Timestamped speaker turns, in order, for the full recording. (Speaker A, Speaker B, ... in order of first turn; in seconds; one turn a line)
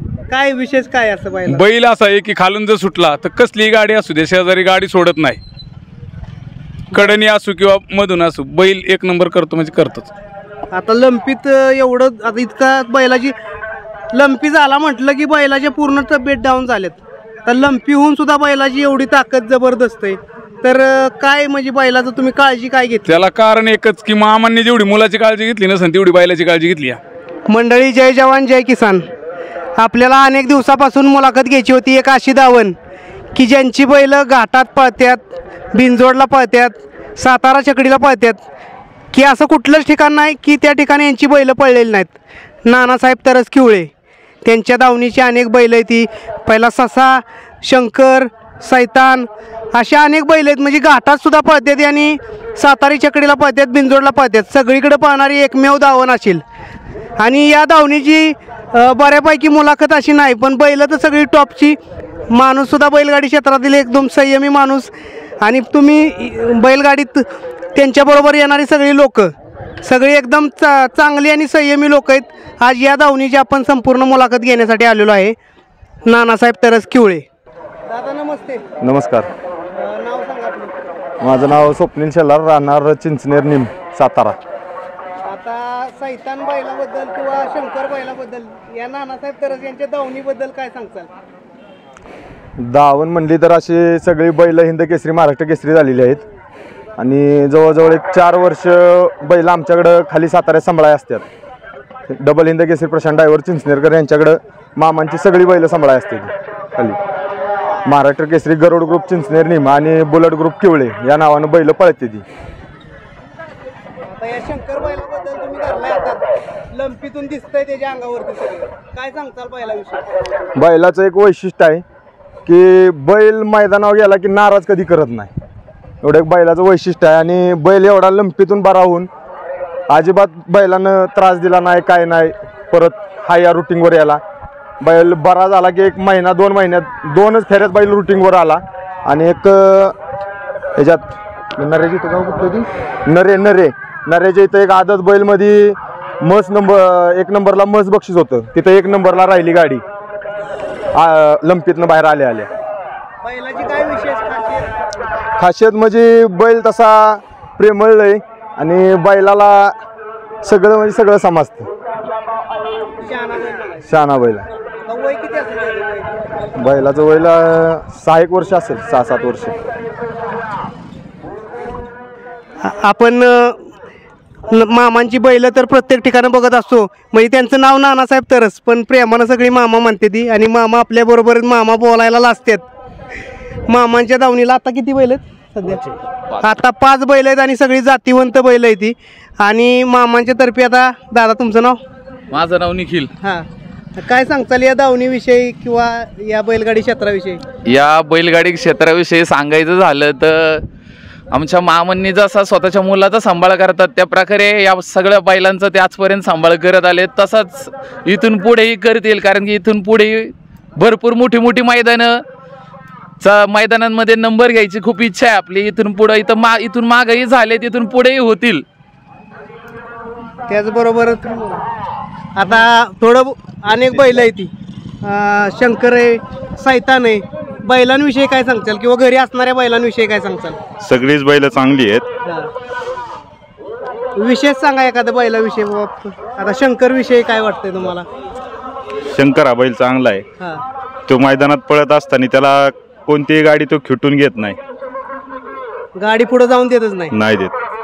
Speaker A: 0.3-1.6
Speaker B: 1.5-5.4
Speaker B: 6.9-10.1
Speaker A: 10.7-13.3
Speaker A: 14.1-23.2
Speaker B: 23.1-27.0
Speaker A: 27.5-29.1
Speaker A: 29.8-32.8
Speaker A: 33.4-35.2
Speaker A: 35.7-38.4
Speaker A: 39.1-42.1
Speaker A: 42.7-43.9
Speaker A: 44.4-56.4
Speaker A: 57.2-61.8
Speaker A: 62.3-64.9
Speaker A: 65.4-69.3
Speaker A: 69.8-75.3
Speaker A: 76.1-77.2
Speaker A: 77.9-78.6
Speaker C: 78.8-79.3
Speaker A: 79.8-80.8
Speaker C: 81.2-84.4
Speaker A: 85.2-91.1
Speaker C: 92.6-96.2
Speaker C: 97.0-101.2
Speaker C: 102.1-107.0
Speaker C: 107.8-112.2
Speaker A: 114.0-120.1
Speaker C: 120.6-121.8
Speaker C: 122.5-125.3
Speaker C: 126.0-129.1
Speaker C: 129.9-134.2
Speaker C: 134.8-139.9
Speaker C: 140.8-149.8
Speaker C: 150.9-152.5
Speaker A: 153.2-154.7
Speaker C: 155.4-159.8
Speaker C: 160.4-161.7
Speaker A: 163.0-163.9
Speaker C: 163.9-164.5
Speaker A: 164.9-166.2
Speaker C: 166.6-169.6
Speaker A: 172.6-173.6
Speaker A: 174.5-182.6
Speaker A: 183.7-185.8
Speaker A: 186.4-191.8
Speaker D: 192.3-193.1
Speaker A: 193.2-193.5
Speaker A: 194.0-197.4
Speaker D: 197.7-200.7
Speaker D: 201.3-212.2
Speaker D: 213.2-218.7
Speaker A: 220.5-221.7
Speaker A: 222.4-224.5
Speaker A: 225.0-230.6
Speaker E: 230.8-232.1
Speaker A: 234.2-238.1
Speaker E: 239.1-240.2
Speaker E: 241.1-244.6
Speaker A: 246.0-247.1
Speaker E: 247.1-247.6